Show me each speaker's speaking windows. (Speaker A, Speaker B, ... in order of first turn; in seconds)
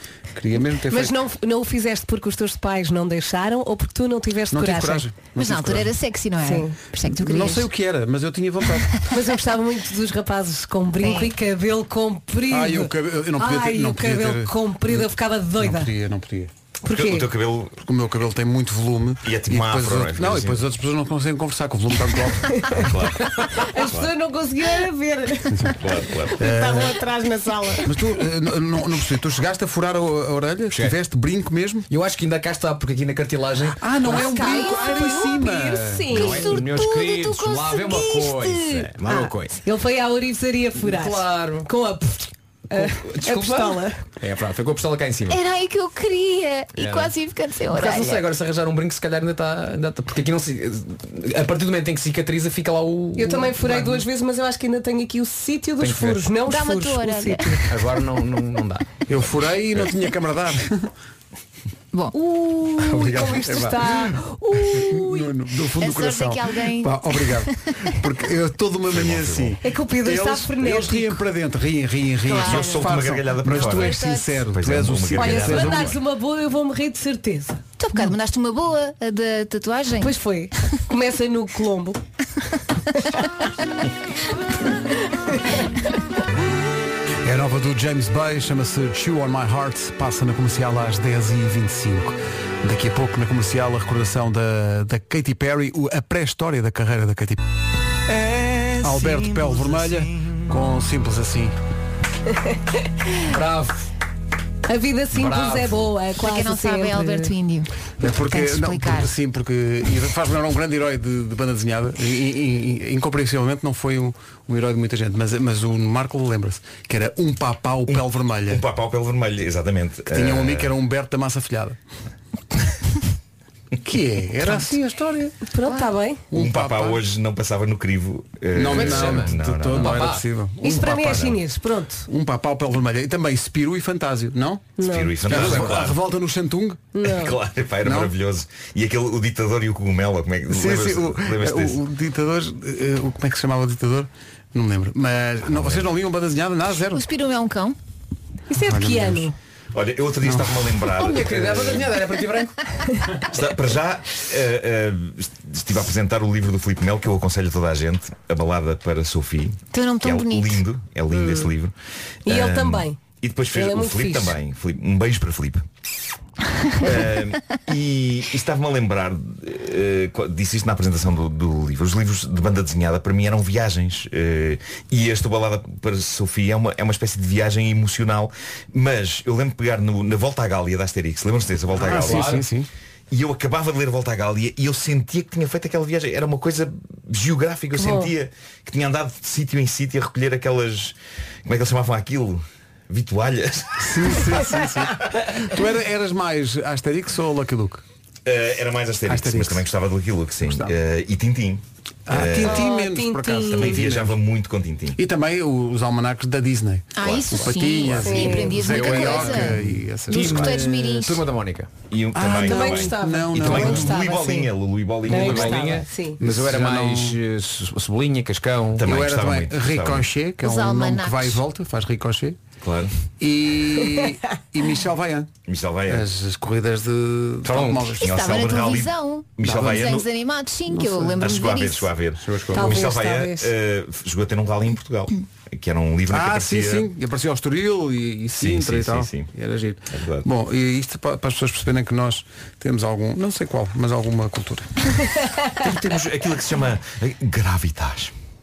Speaker A: 0.3-1.1, 4.5-5.9, 7.2-9.0, 12.5-16.5, 17.8-22.9, 26.4-26.9, 27.9-31.9, 33.8-36.4, 59.1-60.9, 62.8-75.9, 87.2-97.4, 98.1-101.5, 108.0-118.6, 120.1-121.8, 123.8-125.3, 126.3-127.0, 128.5-131.3, 132.1-136.9, 137.8-138.1, 140.5-147.1, 148.6-149.3, 150.2-150.9, 181.8-182.7, 193.8-197.8, 199.1-199.7, 200.5-200.7, 202.1-204.2, 204.9-210.6, 212.1-214.0, 216.2-217.2, 218.8-222.4, 223.2-225.3, 225.9-228.1, 229.4-229.9, 230.7-231.4, 236.1-244.7
Speaker B: 0.9-5.0, 6.4-6.8, 9.1-15.9, 16.8-17.3, 22.5-22.9, 23.5-25.7, 26.4-27.9, 34.0-44.0, 53.2-57.6, 62.1-65.3, 69.6-71.2, 72.3-72.8, 75.2-78.0, 80.0-82.0, 102.3-102.6, 104.7-107.3, 125.5-126.2, 130.6-132.1, 134.8-135.1, 136.9-137.3, 148.5-149.3, 161.1-161.5, 162.2-163.0, 163.5-164.3, 187.8-188.1, 202.4-203.8, 208.0-208.5, 212.4-214.5, 215.0-216.2, 232.5-233.5, 245.1-245.5
Speaker C: 5.3-7.7, 11.0-11.3, 45.3-48.2, 56.4-57.7, 65.8-68.0, 72.3-72.8, 73.5-74.4, 77.8-80.2, 106.2-109.1, 124.4-124.7, 125.6-125.9, 146.9-147.8, 159.7-160.6, 206.9-211.2, 220.4-221.4, 228.0-231.9
Speaker D: 16.9-17.8, 19.2-20.6, 22.7-24.1, 25.7-26.4, 68.9-69.6, 72.4-76.0, 117.9-120.7, 126.3-130.1, 134.8-136.0, 137.0-141.8, 145.5-145.9, 149.7-152.0, 153.2-161.7, 162.2-165.6, 166.8-182.4, 183.1-194.3, 198.2-202.7, 203.5-205.0, 207.0-208.2, 210.2-210.5, 211.9-215.7, 218.8-220.1, 222.6-222.9, 225.4-226.1, 228.0-230.1, 231.2-236.9, 238.4-239.3, 239.9-240.3, 245.5-248.1
Speaker E: 30.7-31.0, 31.9-33.8, 36.1-39.6, 40.8-41.7, 42.7-45.4, 46.8-47.1, 47.7-54.0, 55.8-56.3, 57.6-59.2, 103.2-103.9, 105.1-105.9, 128.6-130.2, 135.3-135.8, 150.9-152.6, 181.7-182.5, 208.5-211.7, 215.1-218.8, 227.4-228.0, 232.2-232.8